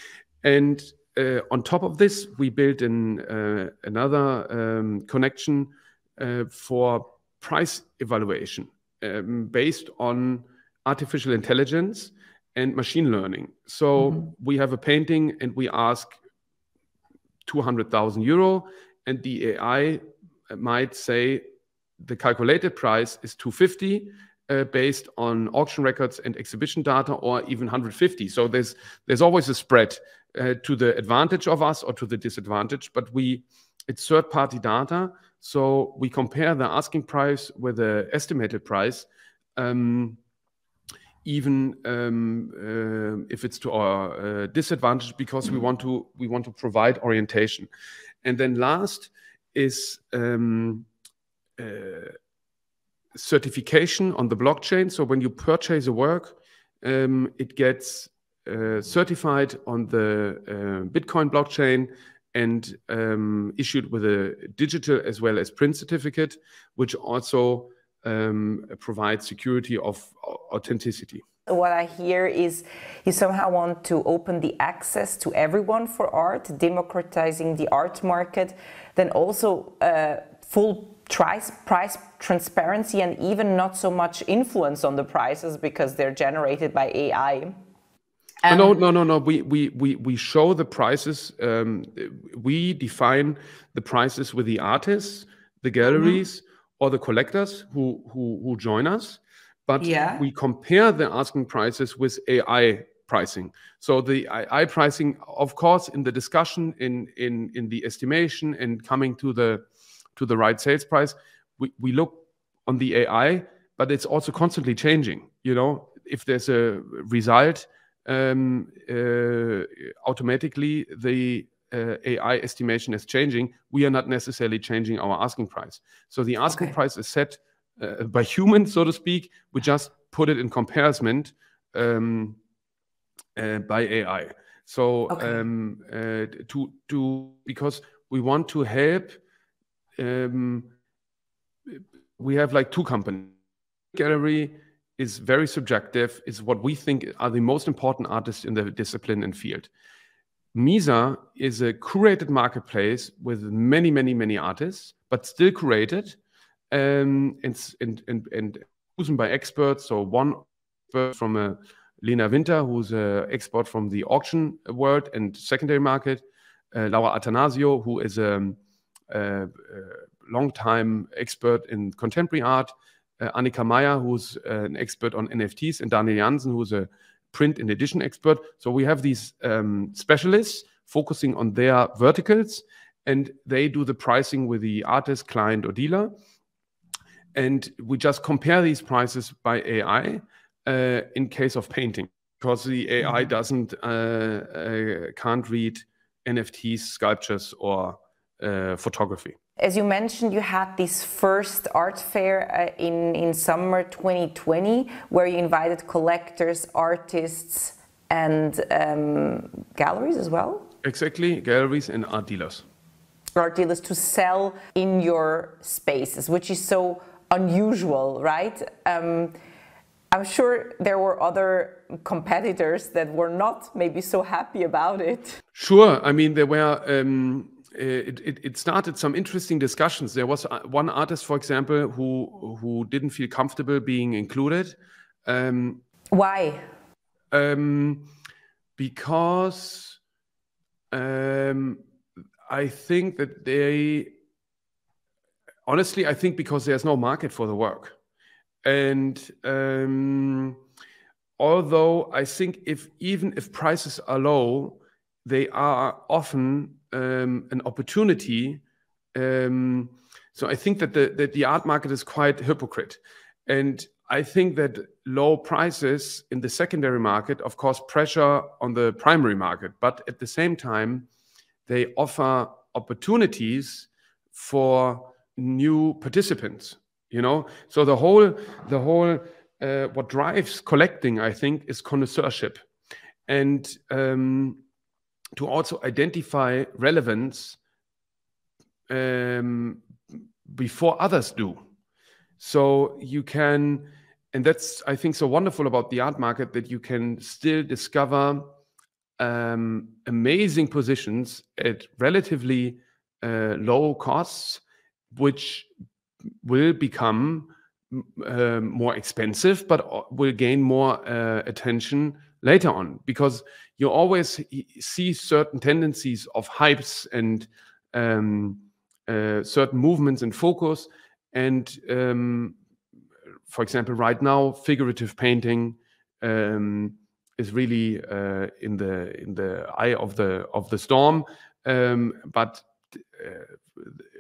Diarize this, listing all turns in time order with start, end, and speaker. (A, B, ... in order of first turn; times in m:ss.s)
0:00.4-0:16.1 A
0:17.5-0:21.4 A
0:22.0-0:40.2 A
0:41.2-0:47.7 A
0:48.2-0:50.9 A
0:51.6-0:52.2 A
0:53.1-1:11.2 A
1:11.5-1:27.6 B
1:28.4-1:28.8 B
1:28.5-2:12.4 A
1:35.9-1:36.2 B
1:39.8-1:40.2 B
2:13.4-2:19.2 A
2:15.1-2:15.4 B
2:20.0-2:20.7 A
2:21.7-2:23.4 A
2:23.9-2:29.7 A
2:30.5-2:36.2 A
2:36.7-2:48.6 A
2:49.1-3:06.1 A
3:07.4-3:19.4 A
3:19.6-3:30.7 B
3:30.8-3:32.6 A
3:33.4-3:39.4 B
3:40.1-3:45.4 B
3:45.6-3:55.8 A
3:56.1-3:56.6 B
3:57.3-3:58.1 A
3:58.8-4:00.0 A
4:00.9-4:01.8 A
4:02.5-4:04.1 A
4:05.6-4:07.9 A
4:08.6-4:10.6 A
4:11.4-4:18.6 A
4:19.1-4:31.1 A
4:31.7-4:42.6 A
4:43.3-4:44.6 A
4:45.4-4:47.6 A
4:48.9-4:49.8 A
4:50.5-4:51.6 A
4:52.4-4:58.5 A
4:59.2-5:04.6 A
5:05.1-5:05.7 A
5:06.4-5:22.6 A
5:23.5-5:34.0 A